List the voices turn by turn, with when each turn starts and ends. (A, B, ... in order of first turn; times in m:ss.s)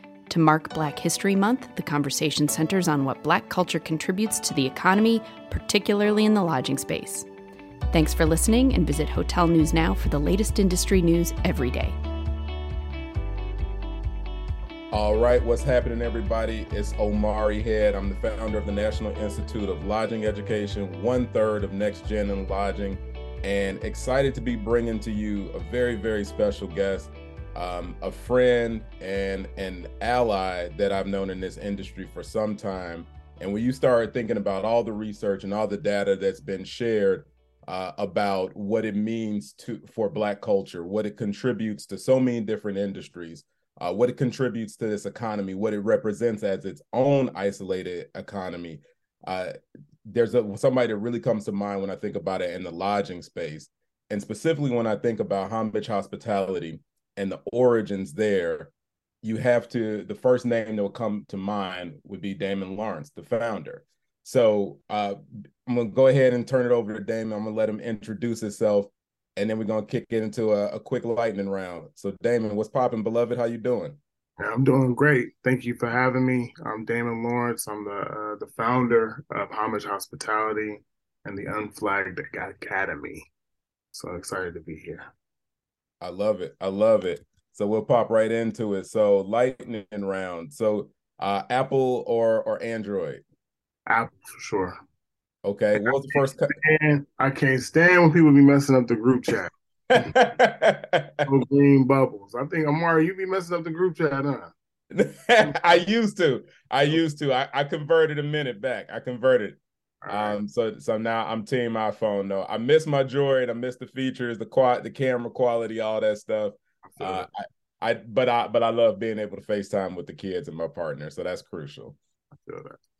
0:00.3-0:07.3 A
0:07.9-0:12.0 A
0:14.9-0:49.5 B
0:50.0-0:58.7 B
0:59.2-1:14.0 B
1:14.4-1:23.3 C
1:23.9-1:25.1 C
1:26.0-1:33.2 B
1:33.9-1:34.8 C
1:35.4-1:36.5 B
1:35.8-1:40.2 C
1:39.9-1:41.3 B
1:41.3-1:44.5 C
1:44.9-2:02.0 B
1:50.0-1:50.4 C
1:56.9-1:57.3 C
2:02.4-2:02.8 C